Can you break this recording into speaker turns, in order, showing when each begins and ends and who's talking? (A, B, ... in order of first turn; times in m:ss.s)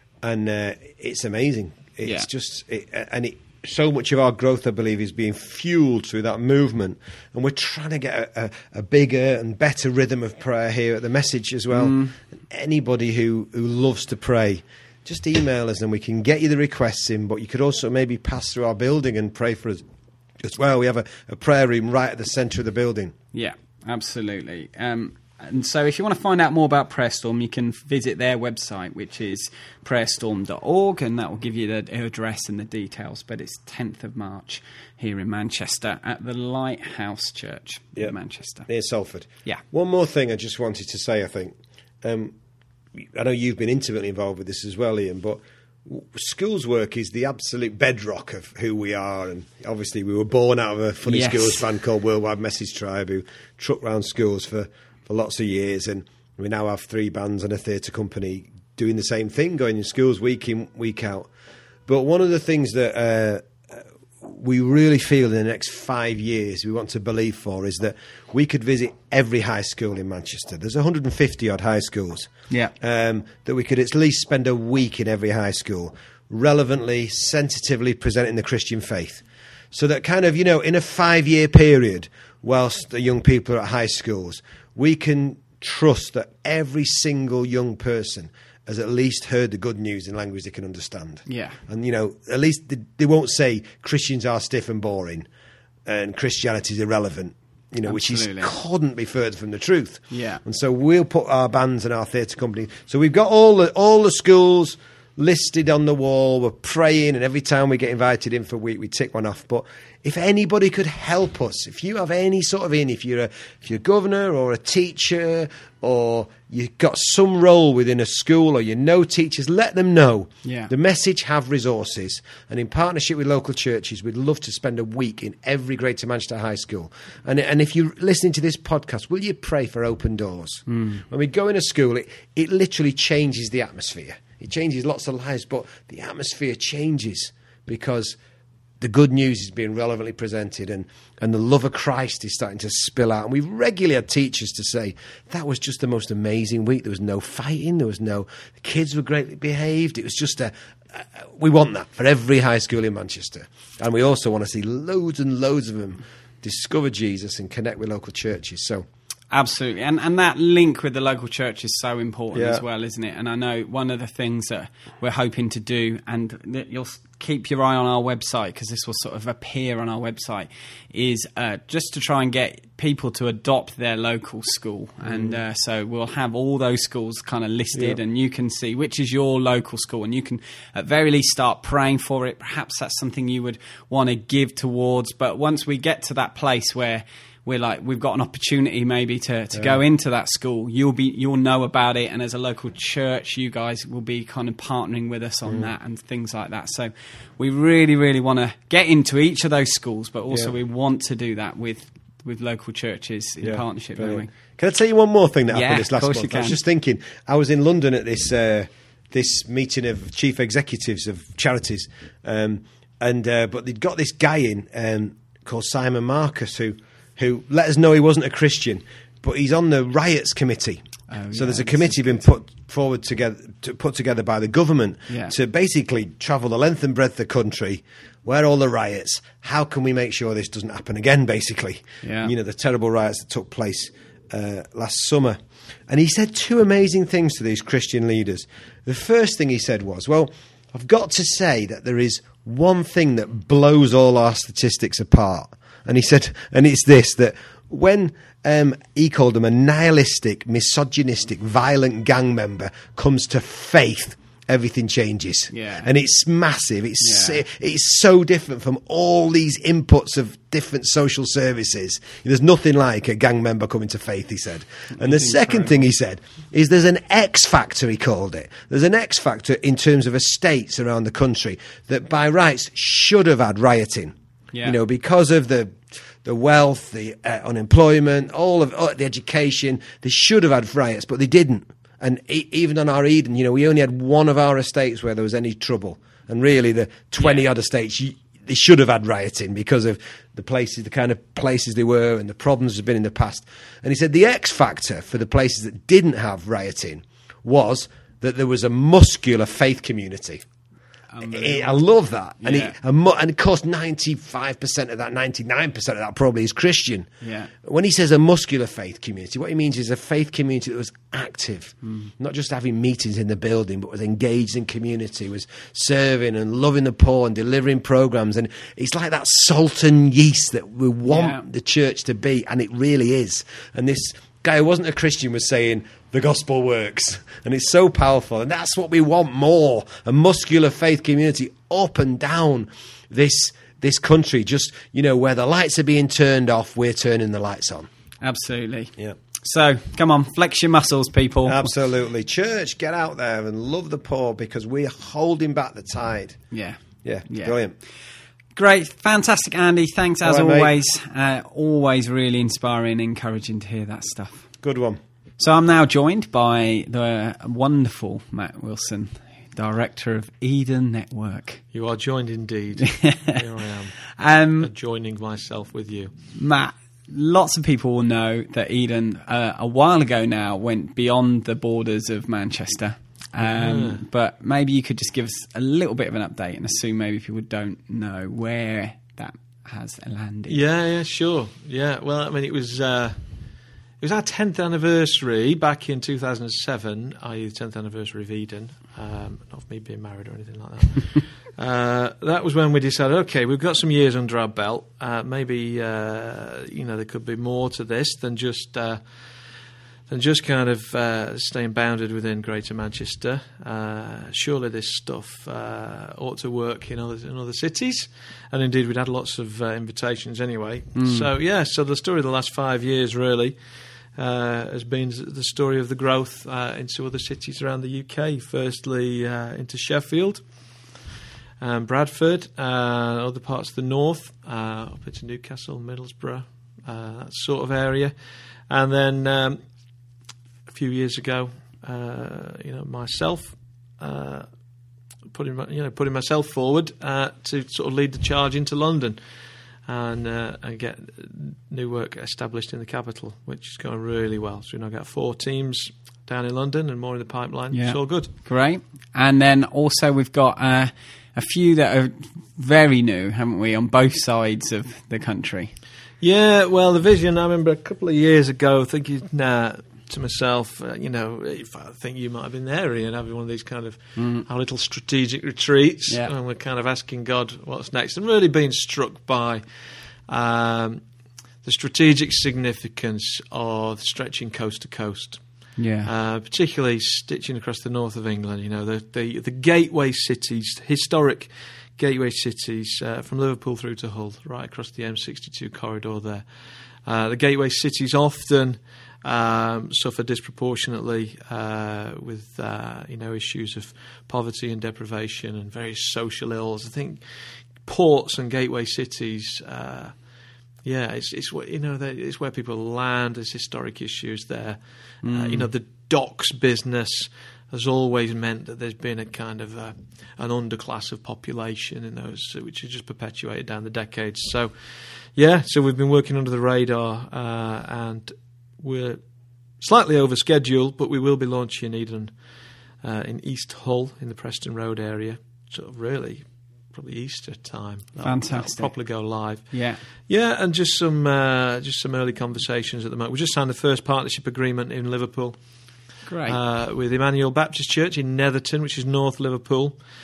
0:00.2-0:19.8 A
0:11.7-0:12.1 B
0:20.4-0:23.1 A
0:23.3-0:38.7 B
0:38.6-0:42.3 A
0:42.9-1:01.3 A
0:51.0-0:51.6 B
1:01.9-1:35.3 A
1:31.3-1:31.6 B
1:35.8-2:18.2 A
1:37.8-1:38.5 B
1:40.1-1:40.4 B
2:00.4-2:00.7 B
2:10.7-2:11.0 B
2:18.8-2:38.8 A
2:39.3-3:24.3 B
2:42.3-2:42.6 A
2:55.0-2:55.4 A
2:57.7-2:58.0 A
3:23.4-3:40.8 A
3:25.5-3:26.6 B
3:41.1-3:42.2 B
3:41.3-5:00.4 A
3:45.1-3:45.3 B
3:52.0-3:52.3 B
4:15.5-4:15.9 B
4:17.0-4:17.4 B
4:24.9-4:25.8 B
4:47.2-4:47.4 B
5:01.1-5:01.8 B
5:01.2-5:07.1 A
5:02.4-5:02.7 B
5:07.2-5:07.5 B
5:07.6-5:37.9 A
5:11.8-5:12.1 B
5:21.1-5:21.4 B
5:38.2-5:41.7 B
5:41.4-5:46.4 A
5:46.5-5:47.5 B
5:47.0-5:47.7 A
5:48.5-5:54.4 B
5:50.2-5:50.7 A
5:54.6-5:55.0 A
5:55.4-6:01.6 B
6:01.7-6:04.0 C
6:03.0-6:03.4 B
6:04.1-6:04.7 B
6:04.6-6:06.1 C
6:06.3-6:20.6 B
6:13.4-6:14.0 C
6:20.5-6:23.2 C
6:24.0-6:39.0 C
6:40.1-6:53.6 C
6:51.0-6:51.3 B
6:54.1-7:00.4 C
7:01.6-7:08.1 C
7:08.7-7:09.6 C
7:10.7-7:14.5 C
7:15.3-7:19.2 C
7:19.8-7:28.3 C
7:27.7-7:35.7 B
7:36.2-7:49.6 C
7:44.2-7:44.4 B
7:50.2-7:51.0 C
7:51.6-7:55.4 C
7:55.8-7:56.1 B
7:56.0-8:06.4 C
8:07.0-8:20.2 C
8:20.8-8:39.2 C
8:25.2-8:25.7 B
8:39.8-8:42.4 C
8:43.0-8:55.6 C
8:48.2-8:49.0 B
8:49.6-8:50.0 B
8:56.2-8:56.6 B
8:56.4-9:00.0 C